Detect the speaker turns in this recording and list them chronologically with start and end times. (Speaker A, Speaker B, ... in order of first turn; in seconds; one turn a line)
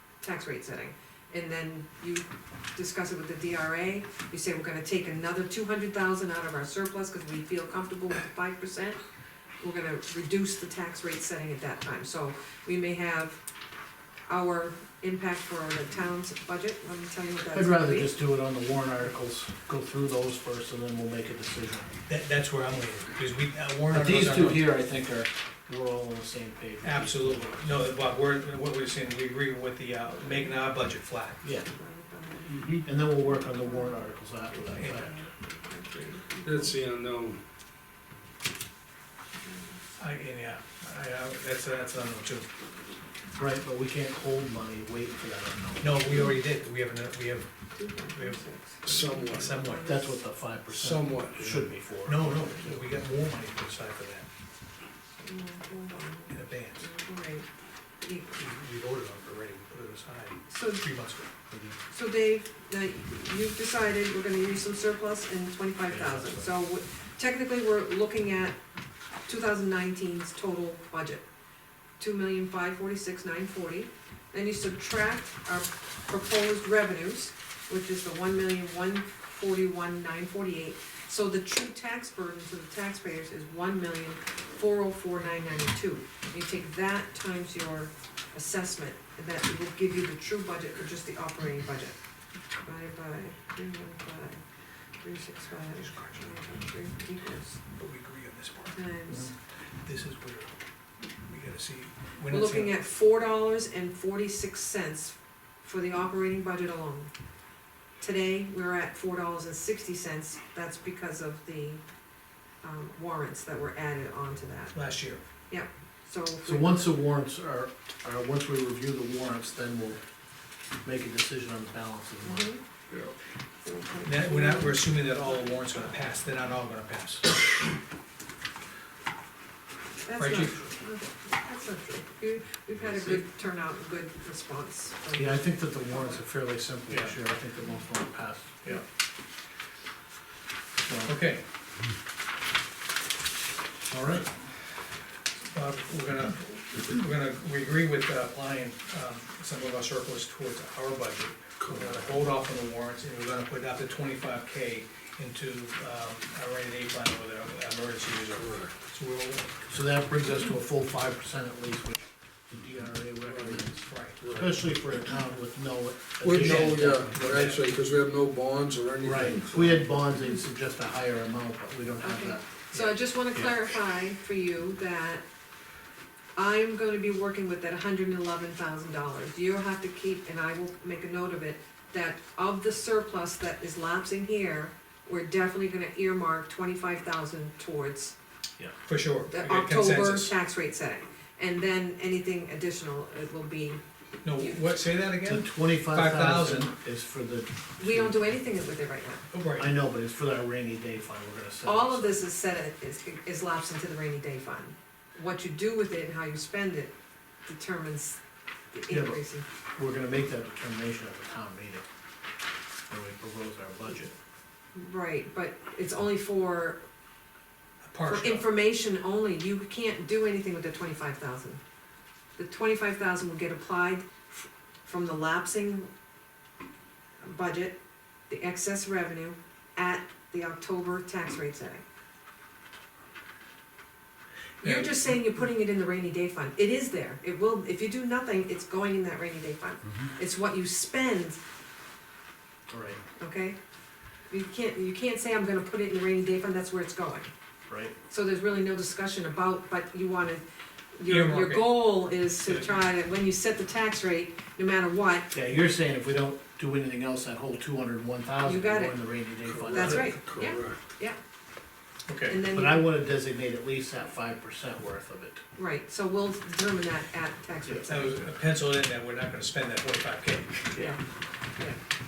Speaker A: 0.2-9.0
Speaker A: 9.6-13.4
Speaker A: 14.3-18.1
Speaker B: 17.5-21.9
Speaker C: 22.1-24.7
Speaker B: 23.9-27.9
Speaker C: 26.8-31.4
Speaker A: 31.4-36.8
Speaker D: 32.5-32.8
Speaker B: 32.8-35.1
Speaker C: 34.7-35.0
Speaker D: 36.4-37.4
Speaker A: 39.4-39.8
Speaker C: 40.0-42.5
Speaker B: 43.4-46.0
Speaker C: 45.8-49.9
Speaker A: 47.7-50.2
Speaker D: 48.8-49.9
Speaker B: 49.8-52.9
Speaker D: 50.7-51.7
Speaker C: 52.0-54.3
Speaker A: 55.2-57.5
Speaker C: 56.3-56.9
Speaker A: 58.0-58.3
Speaker C: 58.3-61.3
Speaker A: 60.5-60.8
Speaker B: 61.5-61.8
Speaker A: 61.9-68.6
Speaker B: 65.9-66.5
Speaker A: 69.2-71.2
Speaker A: 72.0-92.0
Speaker A: 92.6-94.4
Speaker A: 95.0-97.6
Speaker C: 95.7-96.5
Speaker C: 97.7-98.8
Speaker A: 98.7-99.3
Speaker C: 99.8-100.5
Speaker C: 101.2-102.7
Speaker A: 102.3-107.1
Speaker A: 108.0-111.8
Speaker A: 112.6-114.7
Speaker C: 114.7-115.2
Speaker A: 115.5-116.9
Speaker B: 116.4-120.0
Speaker B: 120.8-122.5
Speaker A: 122.2-122.6
Speaker A: 123.6-124.9
Speaker C: 124.0-127.3
Speaker A: 130.0-136.2
Speaker C: 130.2-130.6
Speaker B: 135.1-138.6
Speaker C: 136.9-137.1
Speaker B: 140.8-141.1
Speaker C: 141.1-141.4
Speaker B: 143.9-144.2
Speaker C: 145.5-159.5
Speaker D: 151.6-151.9
Speaker D: 158.3-158.7
Speaker B: 159.7-162.0
Speaker B: 162.5-167.4
Speaker D: 163.3-163.6
Speaker C: 163.8-164.2
Speaker D: 164.2-164.5
Speaker D: 166.2-169.9
Speaker C: 166.3-167.6
Speaker B: 169.0-172.4
Speaker A: 172.0-175.2
Speaker A: 176.3-188.1
Speaker C: 188.8-190.3
Speaker A: 189.3-193.8
Speaker C: 194.2-196.7
Speaker B: 195.2-198.2
Speaker A: 197.8-199.2
Speaker C: 199.3-199.7
Speaker B: 199.6-202.2
Speaker A: 201.6-206.9
Speaker A: 207.4-208.2
Speaker A: 208.7-209.4
Speaker B: 208.9-209.2
Speaker B: 209.8-211.8
Speaker B: 212.9-214.1
Speaker A: 214.7-216.8
Speaker C: 217.8-218.4
Speaker A: 218.0-221.6
Speaker A: 222.4-225.9
Speaker A: 227.2-227.8
Speaker A: 228.3-231.8
Speaker C: 234.6-235.3
Speaker A: 234.6-241.4
Speaker B: 242.7-243.0
Speaker A: 243.2-243.6
Speaker A: 244.3-247.3
Speaker B: 247.7-247.9
Speaker A: 248.1-250.4
Speaker A: 250.9-255.3
Speaker C: 251.1-252.7
Speaker B: 255.3-260.1
Speaker A: 258.4-259.0
Speaker D: 259.4-260.8
Speaker A: 259.6-261.2
Speaker C: 262.1-262.4
Speaker A: 262.3-262.9
Speaker B: 262.5-265.4
Speaker A: 265.6-268.2
Speaker C: 267.9-270.7
Speaker A: 270.7-271.0